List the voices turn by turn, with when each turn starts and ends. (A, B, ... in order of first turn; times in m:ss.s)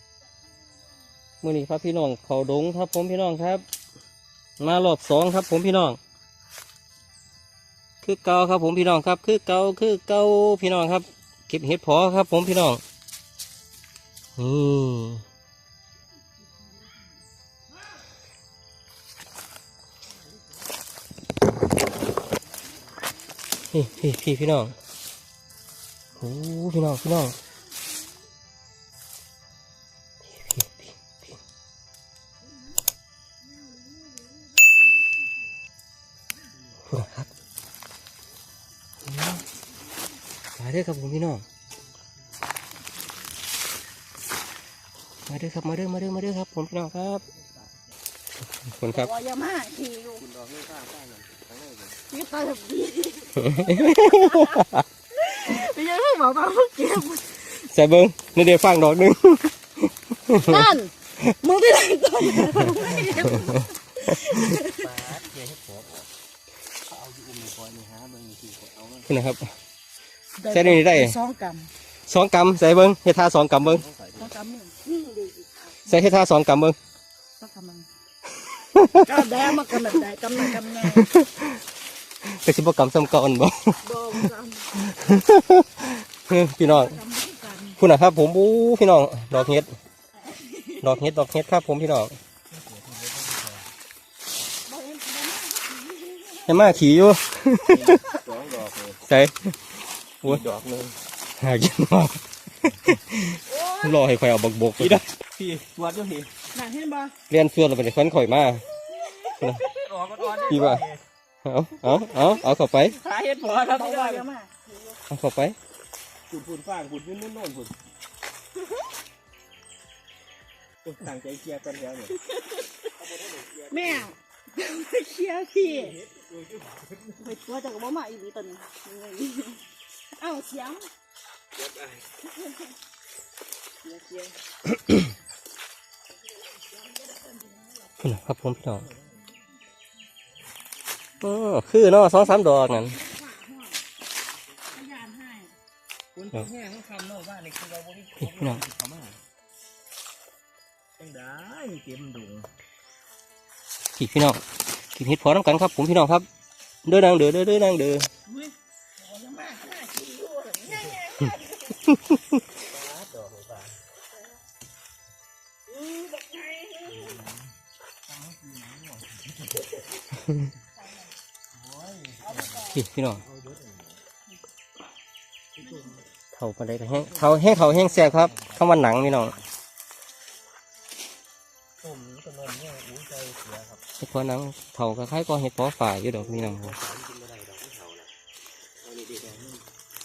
0:01.4-0:03.6 A
0:04.6-0:06.0 A
0:08.0-0:12.8 A
0:14.4-0:15.2 A
0:23.7-0:24.8 A
0:26.2-0:27.4 A
0:30.2-0:31.4 A
0:33.7-0:35.0 B
0:36.8-0:37.3 A
0:39.0-0:39.5 A
0:40.6-0:41.4 A
0:45.3-0:47.3 A
0:47.3-0:47.8 C
0:48.6-0:49.1 A
0:48.9-0:50.2 B
0:50.2-0:52.0 C
0:52.1-0:57.4 B
0:53.4-0:54.8 A
0:57.5-1:00.7 A
1:00.4-1:05.0 B
1:02.6-1:04.4 A
1:04.6-1:06.1 C
1:06.9-1:09.1 C
1:09.1-1:09.5 A
1:10.4-1:11.7 B
1:10.5-1:11.2 A
1:12.1-1:13.8 A
1:13.6-1:14.3 C
1:14.2-1:16.1 B
1:15.9-1:16.8 A
1:17.4-1:17.9 B
1:18.7-1:19.1 A
1:18.9-1:21.1 B
1:20.7-1:21.6 A
1:22.2-1:24.2 A
1:23.8-1:24.7 B
1:24.8-1:27.0 A
1:26.6-1:27.8 B
1:27.8-1:29.8 A
1:30.2-1:31.0 B
1:30.8-1:32.2 A
1:32.5-1:33.7 C
1:34.7-1:36.8 B
1:36.5-1:38.0 A
1:37.7-1:39.0 C
1:39.0-1:40.4 A
1:40.2-1:41.0 C
1:41.4-1:45.0 A
1:44.8-1:46.3 C
1:46.5-1:47.2 B
1:47.3-1:48.6 A
1:48.8-1:49.6 B
1:49.0-1:51.0 C
1:49.4-1:49.6 A
1:50.2-1:50.8 B
1:50.5-1:50.9 A
1:51.4-1:53.0 A
1:53.0-1:54.3 C
1:53.6-1:55.0 B
1:55.1-1:55.6 A
1:56.3-1:57.8 C
2:00.8-2:02.2 C
2:02.2-2:02.9 B
2:03.0-2:04.1 C
2:03.7-2:06.0 B
2:05.6-2:07.3 C
2:07.2-2:10.9 B
2:11.5-2:12.2 C
2:12.3-2:12.7 B
2:13.8-2:14.4 C
2:14.7-2:15.1 A
2:16.8-2:18.0 B
2:18.0-2:18.9 A
2:18.7-2:19.4 C
2:21.2-2:23.0 A
2:22.8-2:23.8 B
2:24.7-2:25.6 B
2:26.1-2:29.2 C
2:28.2-2:28.6 A
2:31.0-2:32.5 C
2:34.0-2:36.3 A
2:36.9-2:38.1 A
2:38.2-2:41.8 B
2:40.7-2:41.0 C
2:41.8-2:42.4 A
2:42.6-2:43.8 C
2:45.7-2:47.2 B
2:46.9-2:47.5 C
2:48.0-2:49.8 C
2:50.2-2:50.5 A
2:50.8-2:51.2 B
2:51.5-2:54.0 C
2:52.2-2:52.8 B
2:52.7-2:53.2 A
2:55.6-2:56.0 C
2:55.6-2:56.0 B
2:56.3-2:59.4 A
2:56.9-2:59.4 C
3:01.8-3:03.8 C
3:04.0-3:06.8 A
3:06.1-3:08.1 C
3:08.8-3:09.6 C